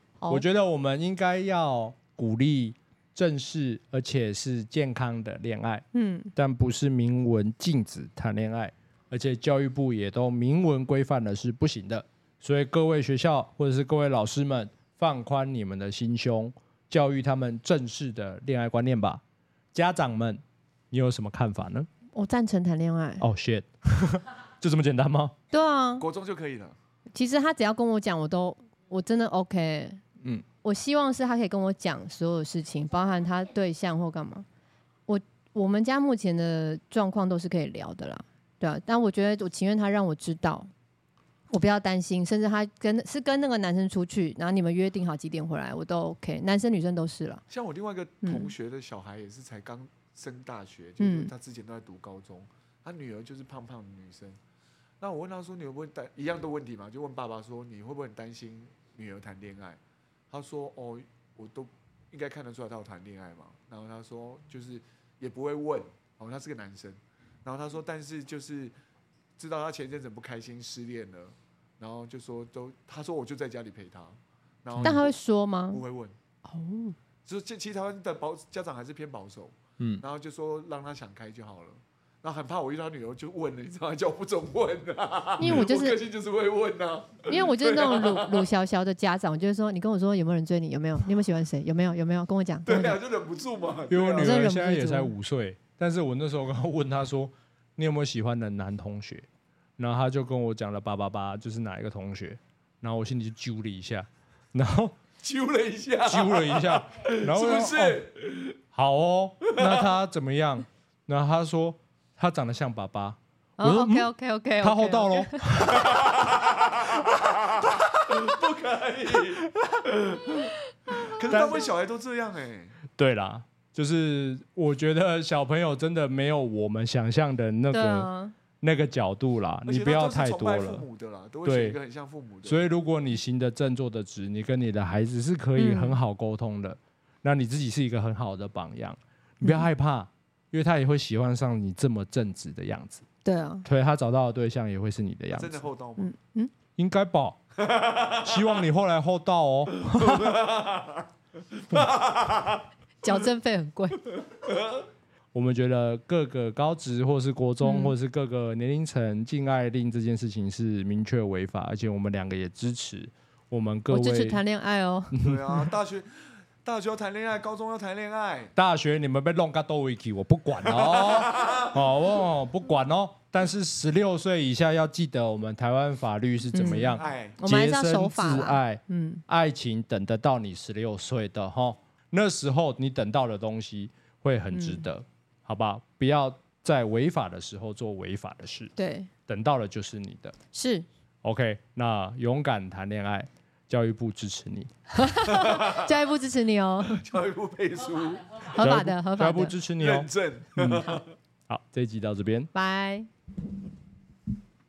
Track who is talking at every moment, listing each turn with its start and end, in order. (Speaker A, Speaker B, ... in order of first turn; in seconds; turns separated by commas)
Speaker A: 0.2-0.4, Speaker B: 0.3-19.2, Speaker A: 5.9-6.3, Speaker B: 19.7-21.9, Speaker A: 22.1-23.3, Speaker B: 23.2-25.3, Speaker A: 25.5-26.1, Speaker C: 26.0-26.8, Speaker A: 27.1-30.0, Speaker A: 30.6-34.5, Speaker A: 35.1-40.7, Speaker A: 41.5-47.4, Speaker C: 47.5-54.4, Speaker A: 48.2-48.5, Speaker A: 51.0-51.3, Speaker C: 55.0-59.8, Speaker C: 60.3-68.7, Speaker C: 69.4-75.1, Speaker B: 74.8-75.0, Speaker A: 74.8-75.8, Speaker C: 75.7-76.2, Speaker A: 76.5-77.0, Speaker C: 77.3-88.5, Speaker A: 85.4-86.0, Speaker B: 85.4-85.7, Speaker A: 87.2-93.0, Speaker C: 92.7-94.4, Speaker B: 93.9-99.3, Speaker A: 94.2-95.1, Speaker B: 99.8-105.0, Speaker C: 105.2-108.6, Speaker B: 106.1-108.0, Speaker B: 108.7-114.1, Speaker C: 109.5-109.8, Speaker A: 113.6-115.8, Speaker B: 114.6-116.4, Speaker C: 115.7-122.8, Speaker A: 120.9-121.2, Speaker B: 121.3-121.6, Speaker B: 123.0-128.1, Speaker A: 127.7-128.3, Speaker B: 128.6-130.8, Speaker C: 129.7-132.7, Speaker B: 131.4-131.8, Speaker B: 132.4-143.1, Speaker A: 135.6-136.0, Speaker A: 139.4-139.7, Speaker A: 143.2-143.7, Speaker B: 143.6-145.6, Speaker C: 145.3-146.1, Speaker A: 146.0-146.5, Speaker B: 146.8-147.4, Speaker C: 147.7-148.2, Speaker B: 148.2-150.4, Speaker C: 149.8-152.6, Speaker A: 153.0-154.1, Speaker C: 154.5-154.8, Speaker B: 155.3-164.4, Speaker A: 157.6-157.9, Speaker A: 163.9-165.2, Speaker B: 165.1-165.6, Speaker C: 165.2-168.5, Speaker B: 168.6-188.7, Speaker C: 170.8-171.8, Speaker A: 176.5-179.2, Speaker C: 176.8-177.4, Speaker A: 184.5-184.9, Speaker A: 188.8-189.1, Speaker B: 189.3-190.4, Speaker A: 190.5-190.9, Speaker B: 191.2-194.7, Speaker A: 194.9-197.0, Speaker C: 195.3-195.9, Speaker C: 196.9-198.6, Speaker A: 198.4-199.6, Speaker B: 198.6-200.9, Speaker C: 199.8-201.1, Speaker B: 201.5-202.5, Speaker A: 202.5-203.1